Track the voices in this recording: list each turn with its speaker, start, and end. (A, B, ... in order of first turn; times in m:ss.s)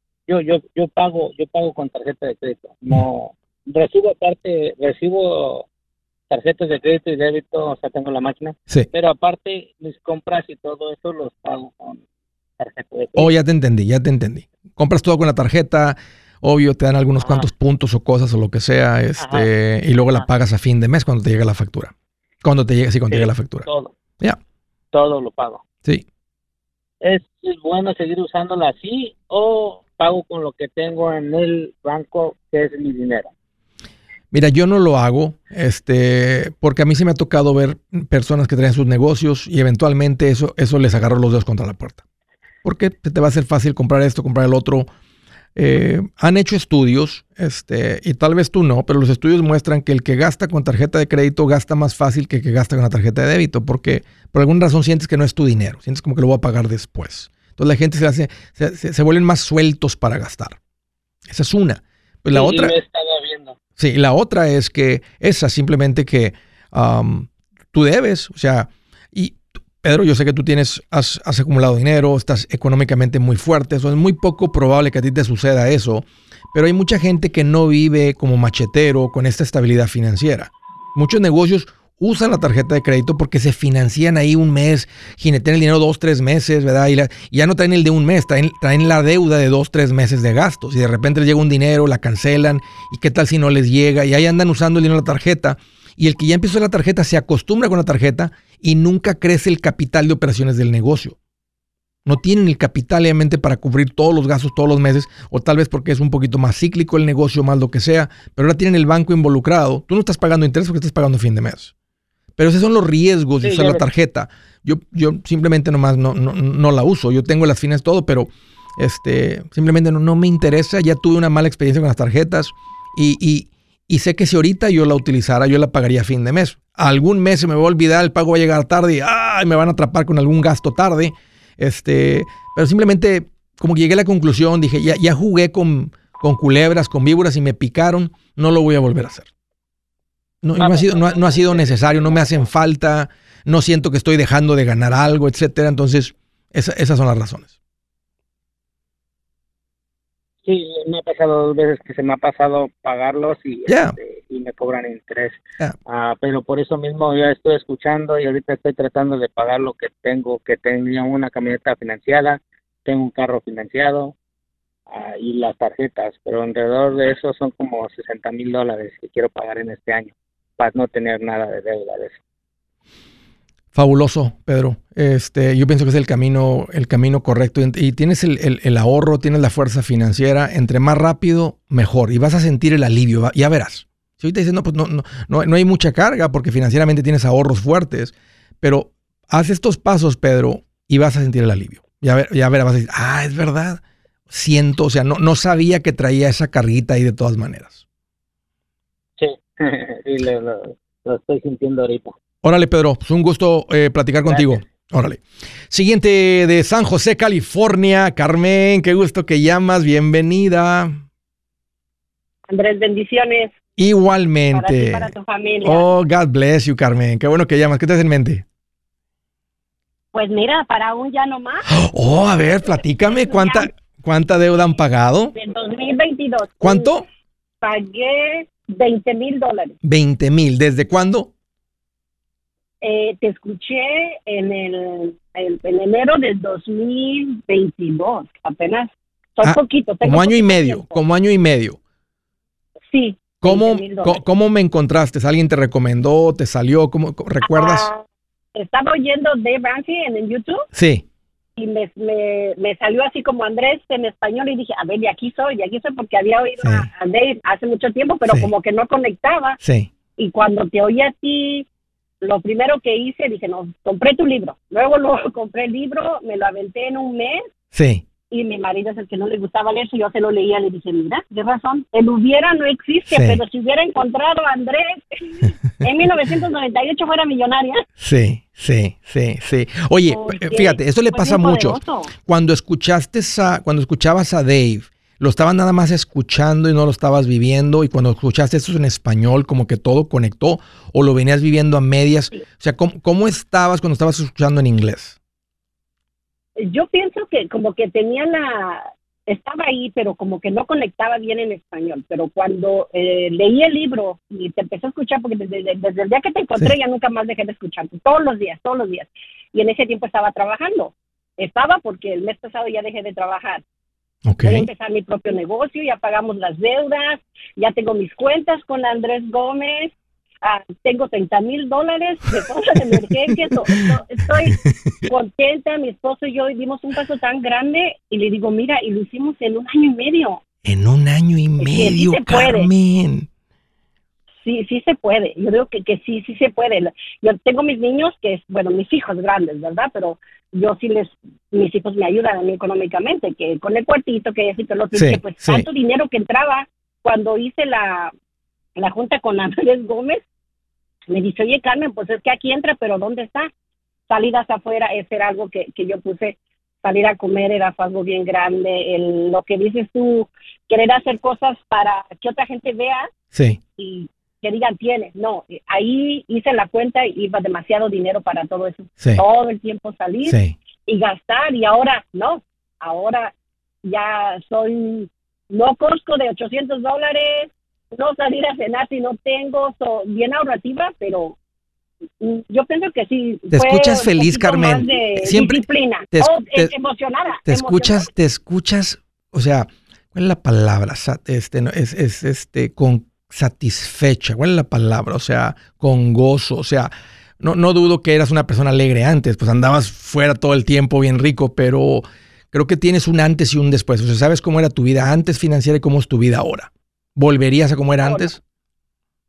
0:00.3-0:05.7 A
0:06.3-0:12.0 A
0:12.6-0:13.3 A
0:13.2-0:23.7 B
0:17.2-0:17.5 A
0:19.2-0:19.5 A
0:23.1-0:23.9 A
0:24.9-0:25.6 A
0:27.0-0:33.3 A
0:34.3-0:42.0 B
0:42.6-0:44.9 B
0:45.5-1:00.6 B
1:01.3-1:02.8 B
1:02.3-1:03.6 A
1:03.8-1:41.2 B
1:42.0-1:51.7 B
1:52.4-2:19.3 B
1:53.4-1:53.8 A
2:20.4-2:27.5 B
2:20.6-2:22.5 A
2:30.4-2:44.1 A
2:33.7-2:34.0 B
2:44.9-2:52.2 A
2:53.7-3:17.8 B
3:19.2-3:22.1 A
3:22.4-3:31.0 B
3:24.2-3:24.6 A
3:32.5-3:33.5 C
3:33.8-3:38.4 B
3:34.5-3:35.8 C
3:40.1-3:41.7 C
3:41.7-3:45.3 B
3:43.1-3:43.7 C
3:45.3-3:46.9 C
3:46.6-3:47.0 B
3:47.6-3:49.8 C
3:49.8-3:51.3 B
3:52.8-4:01.0 C
3:59.4-4:01.8 B
4:02.9-4:04.2 C
4:03.4-4:07.9 B
4:07.4-4:08.0 C
4:08.5-4:10.6 C
4:10.7-4:11.0 B
4:11.6-4:19.6 C
4:16.6-4:16.9 B
4:18.2-4:18.5 B
4:19.6-4:19.9 B
4:20.2-4:21.7 C
4:22.2-4:27.4 C
4:27.7-4:28.0 B
4:28.3-4:37.8 C
4:33.1-4:33.4 B
4:38.0-4:55.2 B
4:40.1-4:42.1 C
4:56.6-5:13.6 C
5:14.2-5:14.7 B
5:14.4-5:30.4 C
5:30.6-5:33.3 B
5:31.6-5:32.7 C
5:34.4-5:48.1 C
5:44.9-5:45.6 B
5:48.8-5:50.2 C
5:51.1-5:53.5 C
5:54.1-6:03.1 C
6:03.3-6:03.6 B
6:03.8-6:13.3 C
6:10.2-6:10.6 B
6:13.8-6:21.4 C
6:22.2-6:28.1 C
6:23.5-6:26.7 B
6:27.4-6:48.4 B
6:48.0-6:48.3 C